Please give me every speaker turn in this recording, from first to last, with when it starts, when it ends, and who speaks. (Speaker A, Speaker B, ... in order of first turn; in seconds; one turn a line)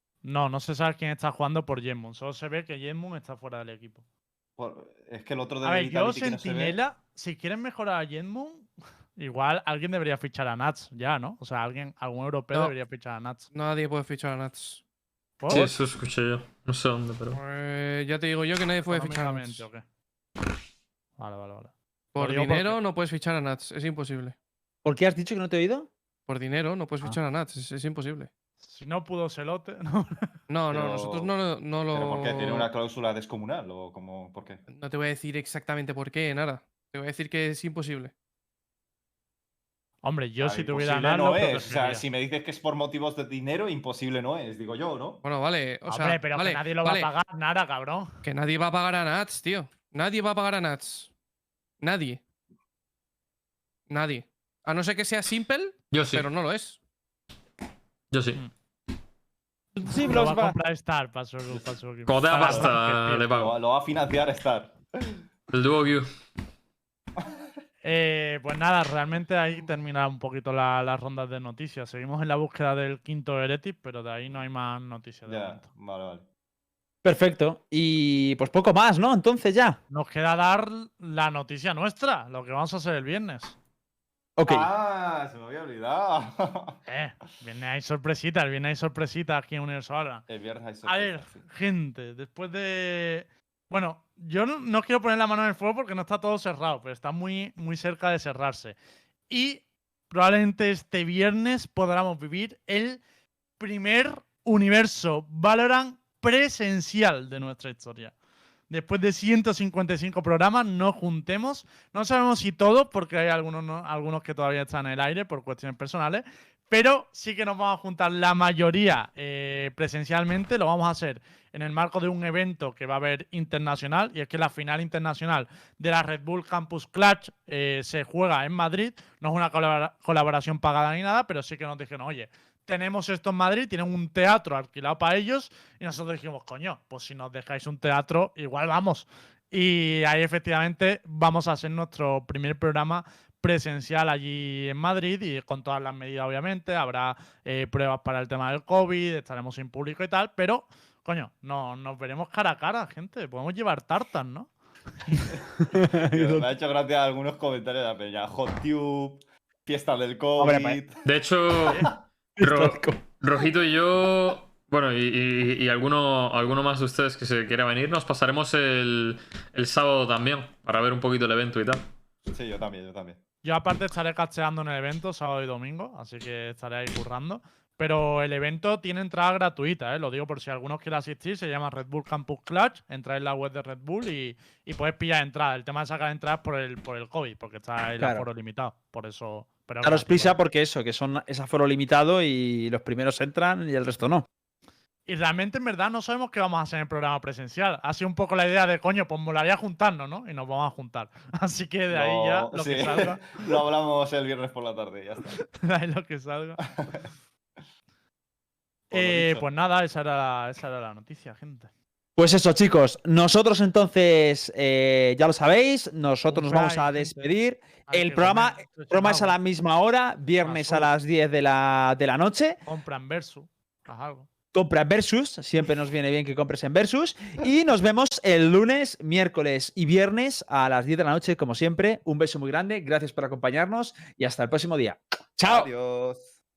Speaker A: 0.2-4.0
Speaker B: 4.6-6.8
Speaker A: 5.6-13.5
Speaker C: 13.5-14.8
Speaker A: 15.4-15.7
Speaker D: 15.5-17.4
Speaker C: 17.3-19.7
Speaker A: 18.9-19.9
Speaker A: 21.2-22.8
Speaker C: 22.1-24.4
Speaker E: 24.9-25.9
Speaker C: 26.3-28.3
Speaker A: 28.6-30.3
Speaker C: 30.5-32.7
Speaker B: 30.7-31.3
Speaker B: 31.9-34.6
Speaker C: 34.7-38.1
Speaker A: 40.0-42.0
Speaker B: 40.4-45.2
Speaker C: 45.2-47.1
Speaker A: 45.9-48.2
Speaker C: 48.2-51.1
Speaker C: 51.8-52.2
Speaker C: 53.9-56.8
Speaker D: 55.9-56.3
Speaker D: 58.1-58.4
Speaker E: 59.8-60.6
Speaker A: 59.8-63.3
Speaker D: 62.1-63.6
Speaker B: 63.4-65.2
Speaker D: 65.5-66.1
Speaker A: 67.8-75.7
Speaker B: 75.3-76.3
Speaker E: 77.0-79.8
Speaker A: 79.9-83.5
Speaker E: 84.4-84.7
Speaker B: 84.5-86.8
Speaker A: 86.9-90.3
Speaker B: 90.3-91.5
Speaker A: 90.8-98.8
Speaker A: 99.3-103.0
Speaker A: 103.6-108.1
Speaker A: 108.7-154.5
Speaker A: 155.0-155.4
Speaker E: 155.6-156.5
Speaker B: 156.0-161.1
Speaker E: 160.4-160.8
Speaker D: 161.1-171.9
Speaker E: 162.4-163.0
Speaker B: 172.3-173.2
Speaker A: 173.4-190.4
Speaker E: 188.0-188.3
Speaker E: 189.8-194.3
Speaker A: 195.1-203.4
Speaker B: 201.9-205.4
Speaker A: 205.4-206.6
Speaker B: 208.9-209.5
Speaker A: 208.9-211.7
Speaker E: 212.2-222.6
Speaker A: 216.3-217.3
Speaker A: 217.9-219.4
Speaker A: 220.4-220.9
Speaker A: 222.7-224.3
Speaker E: 224.5-235.7
Speaker B: 235.4-236.4